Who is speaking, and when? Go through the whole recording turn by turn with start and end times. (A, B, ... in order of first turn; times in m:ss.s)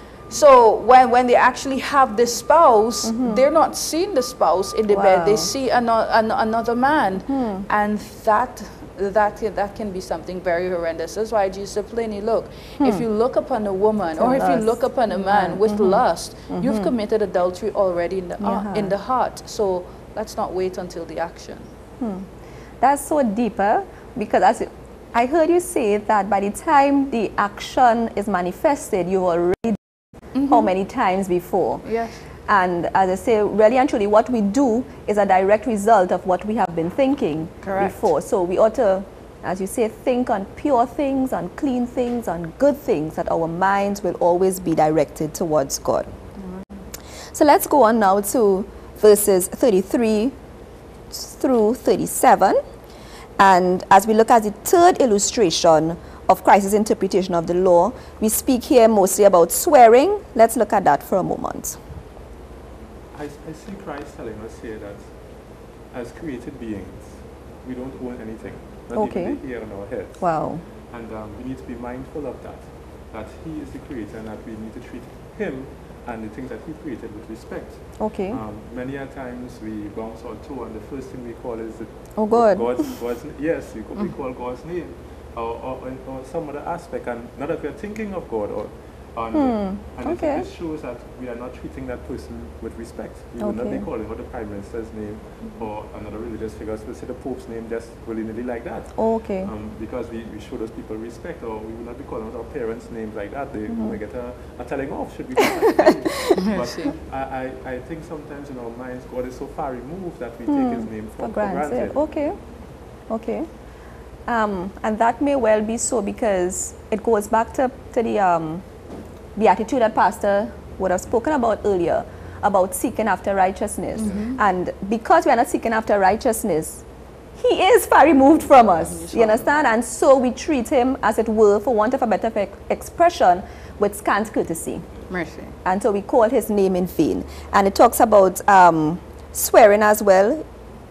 0:00.3-0:21.7 A
0:03.0-0:03.4 B
0:04.9-0:05.5 B
0:07.3-0:07.6 B
0:14.2-0:16.9 B
0:18.4-0:18.9 B
0:22.0-0:22.3 B
0:22.8-0:29.8 B
0:30.3-0:30.7 A
0:30.5-0:31.8 B
0:31.8-0:32.2 A
0:32.4-0:46.1 B
0:37.6-0:38.0 A
0:46.4-0:46.7 A
0:47.3-0:50.3 B
0:51.1-0:52.6 B
0:53.4-1:01.8 B
1:03.1-1:05.1 C
1:05.9-1:10.2 C
1:08.9-1:09.4 B
1:10.2-1:10.6 B
1:10.9-1:52.1 C
1:18.0-1:18.4 B
1:22.2-1:22.7 B
1:29.3-1:30.4 B
1:33.4-1:33.8 B
1:39.0-1:39.5 B
1:43.7-1:44.0 B
1:46.4-1:46.9 A
1:50.5-1:52.4 B
1:53.1-1:53.5 B
1:54.2-1:58.6 B
1:59.4-2:06.8 B
2:04.0-2:04.4 A
2:07.4-2:14.8 B
2:08.9-2:09.5 A
2:15.1-2:15.6 A
2:15.6-2:20.4 B